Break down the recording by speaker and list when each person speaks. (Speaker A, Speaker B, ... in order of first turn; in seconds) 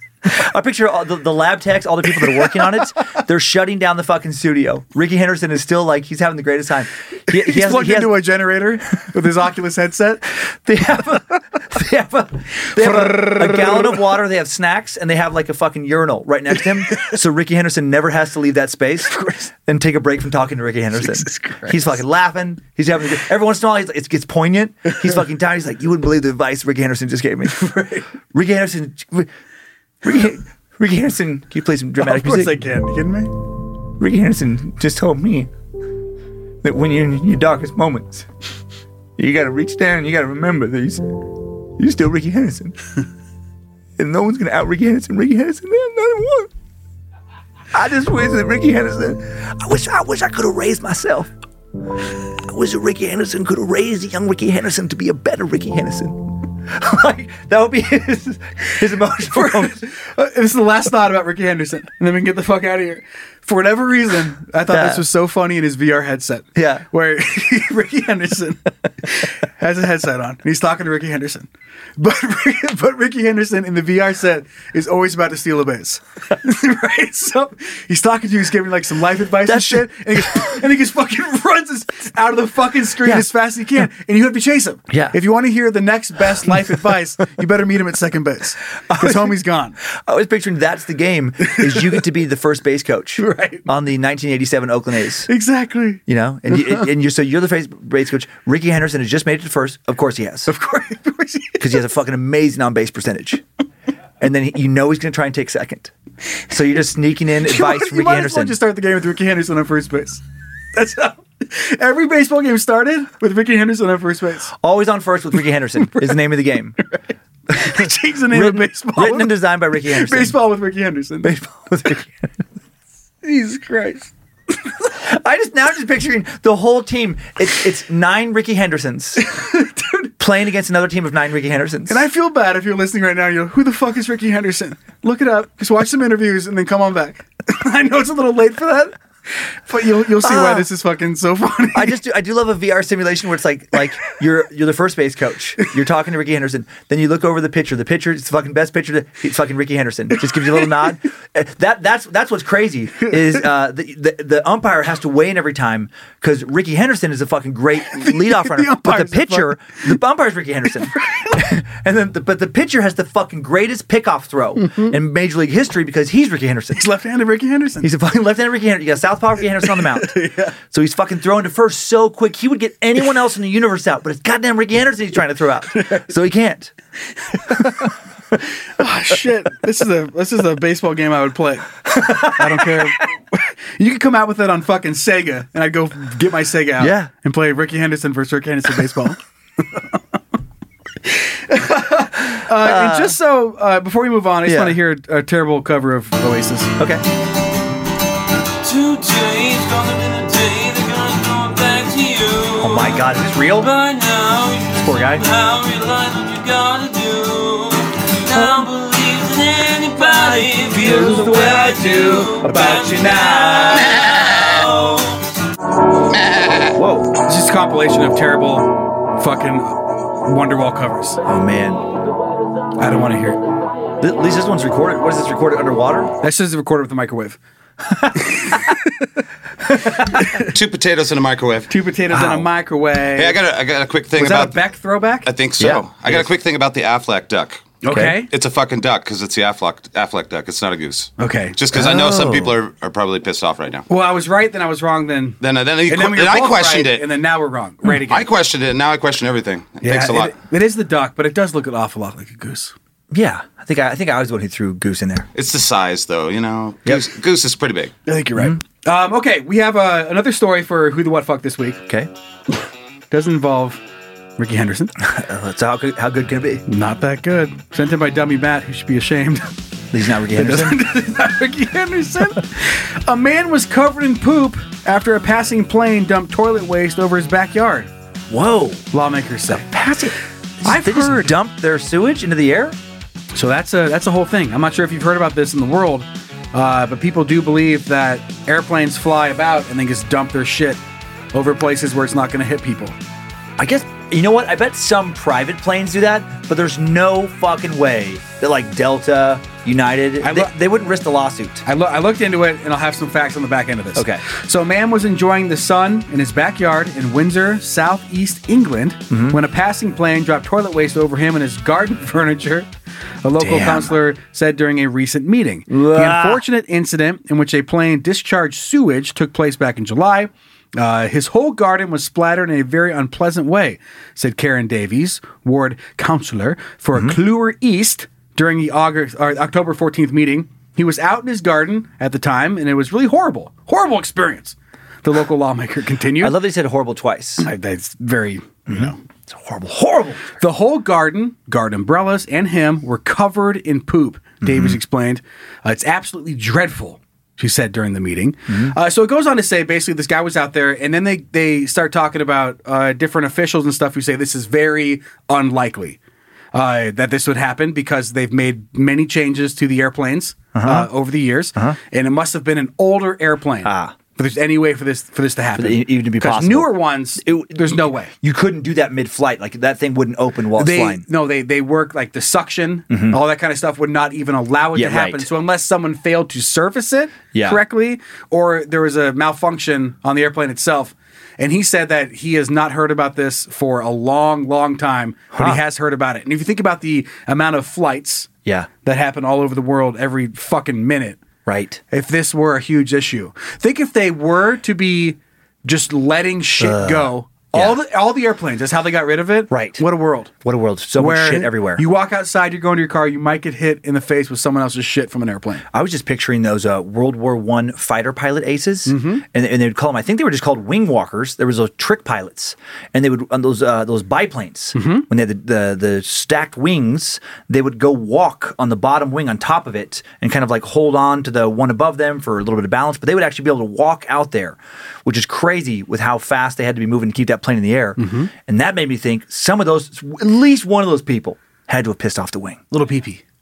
Speaker A: 0.2-8.2, 10.6-27.6, 28.3-29.3, 30.0-32.6, 34.0-35.5, 36.6-38.3, 39.2-41.0, 41.8-42.7, 44.0-46.5, 47.7-51.3, 52.4-59.9, 64.7-65.0, 66.5-66.8, 79.5-80.5, 83.0-83.3, 84.9-85.2, 88.9-95.3, 96.1-100.5, 101.6-103.4, 104.2-105.9, 106.5-108.6, 114.6-116.8, 117.5-120.4, 121.2-122.3, 124.9-129.3, 130.2-132.0, 140.2-140.7, 141.7-166.9, 167.8-176.7, 177.6-177.8, 181.9-182.9, 186.8-187.1, 192.3-193.2, 194.4-194.8, 202.6-203.7, 204.8-205.2, 210.6-214.3, 216.7-217.1, 221.2-221.9, 224.0-226.1, 227.9-228.3, 229.7-230.2, 232.1-232.4, 235.6-235.8, 237.9-238.2, 241.7-242.5, 253.1-255.3, 265.0-266.6, 269.9-270.8, 278.3-278.8, 279.5-282.8, 293.6-301.6, 303.9-304.2, 309.1-309.4, 313.4-313.9, 315.7-316.4, 336.2-337.5, 338.7-340.3, 344.4-344.8, 348.5-348.7, 360.5-360.9, 363.6-363.9, 365.6-371.0, 372.9-373.2, 374.7-375.3, 377.3-377.6, 385.3-385.6, 391.4-391.8, 396.6-397.8, 399.5-399.8, 400.4-401.8, 405.7-432.6
Speaker B: 2.2-2.7, 7.3-10.4, 12.7-14.0, 19.1-19.5, 20.9-22.0, 27.5-28.1, 32.0-33.3, 59.3-89.8, 91.6-92.0, 93.2-93.7, 95.3-96.9, 100.5-101.8, 107.4-110.2, 110.7-114.5, 115.8-116.3, 116.8-121.3, 123.2-124.1, 129.2-130.1, 131.9-142.0, 157.8-160.0, 160.9-161.4, 166.7-167.9, 169.6-170.6, 175.7-176.1, 177.3-177.9, 178.8-190.0, 191.0-196.7, 217.2-221.2, 222.8-223.4, 226.2-227.4, 228.2-229.1, 230.1-230.4, 231.7-233.4, 234.1-235.3, 237.8-238.3, 241.2-241.6, 243.9-248.3, 249.8-252.7, 258.1-261.8, 263.1-263.8, 264.4-264.9, 266.6-269.5, 270.3-277.9, 278.9-279.7, 280.6-281.3, 283.3-290.8, 291.3-293.0, 300.2-300.5, 301.6-312.7, 313.2-336.4, 337.4-339.0, 340.4-356.0, 356.5-368.1, 370.6-388.3, 388.8-391.2, 391.9-400.3, 401.0-405.6, 408.9-409.2, 414.7-415.1, 428.0-428.3, 432.7-433.2
Speaker C: 198.6-215.2
Speaker D: 230.5-231.7, 233.2-234.6, 235.2-243.8, 245.4-247.1, 247.9-250.4, 255.3-257.9